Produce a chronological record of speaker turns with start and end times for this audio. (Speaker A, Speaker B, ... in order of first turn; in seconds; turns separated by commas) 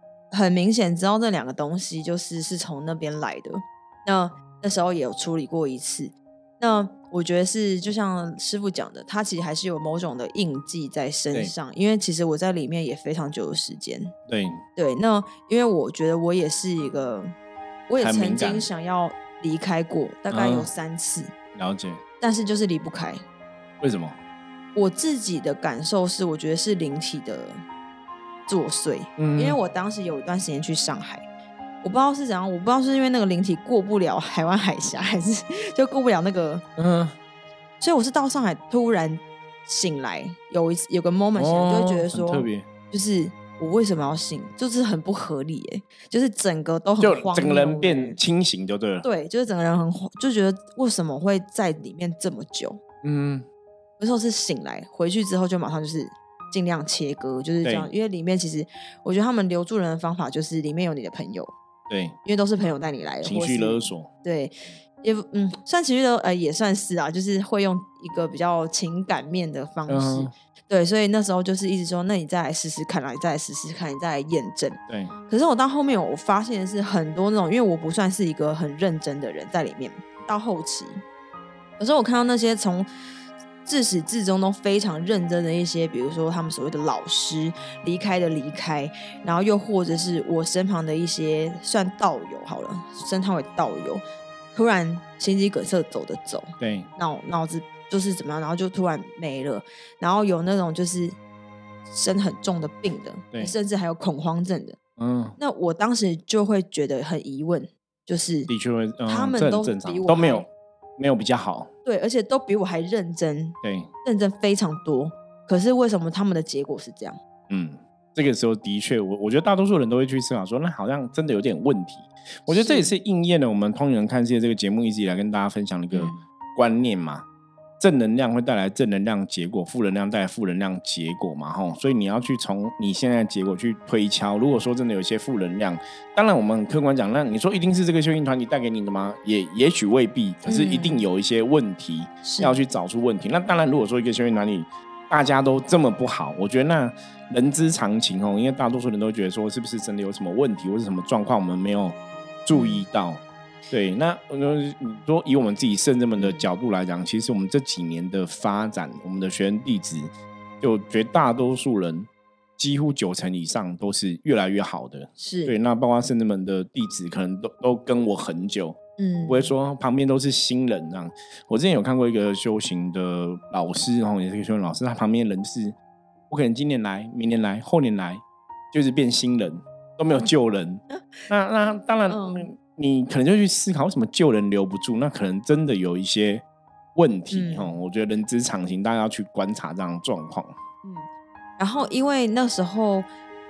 Speaker A: 0.3-14.1, Speaker B: 14.3-14.6, Speaker A: 14.8-17.3, Speaker A: 17.9-21.3, Speaker B: 18.0-18.7, Speaker B: 20.3-20.7, Speaker B: 21.6-22.0, Speaker A: 22.2-23.2, Speaker B: 23.8-24.2, Speaker A: 24.8-27.6, Speaker A: 28.5-31.2, Speaker B: 29.2-29.6, Speaker A: 31.8-36.6, Speaker B: 36.8-37.2, Speaker A: 37.8-48.2, Speaker B: 41.4-42.7, Speaker B: 47.0-49.1, Speaker A: 49.0-52.8, Speaker B: 53.0-53.5, Speaker A: 54.0-61.5, Speaker B: 57.6-57.9, Speaker B: 61.9-62.2, Speaker A: 62.2-81.0, Speaker B: 63.2-64.1, Speaker B: 69.9-70.3, Speaker B: 74.9-75.1, Speaker A: 81.8-82.9, Speaker A: 83.7-94.0, Speaker A: 94.5-101.2, Speaker B: 96.6-96.9, Speaker A: 101.9-104.8, Speaker B: 105.0-105.4, Speaker A: 105.4-108.5, Speaker B: 108.5-110.5, Speaker A: 109.1-110.5, Speaker B: 111.0-111.7, Speaker A: 111.8-117.2, Speaker B: 113.6-113.9, Speaker B: 117.5-127.2, Speaker A: 122.5-122.9, Speaker A: 125.9-126.2, Speaker B: 127.8-175.8, Speaker A: 140.5-141.1, Speaker A: 142.2-142.6, Speaker A: 152.5-152.8, Speaker A: 156.2-156.5, Speaker A: 165.2-165.6, Speaker A: 169.0-169.5, Speaker B: 176.3-186.4, Speaker A: 182.1-182.5, Speaker B: 186.9-190.6, Speaker A: 187.3-187.8, Speaker A: 190.8-193.1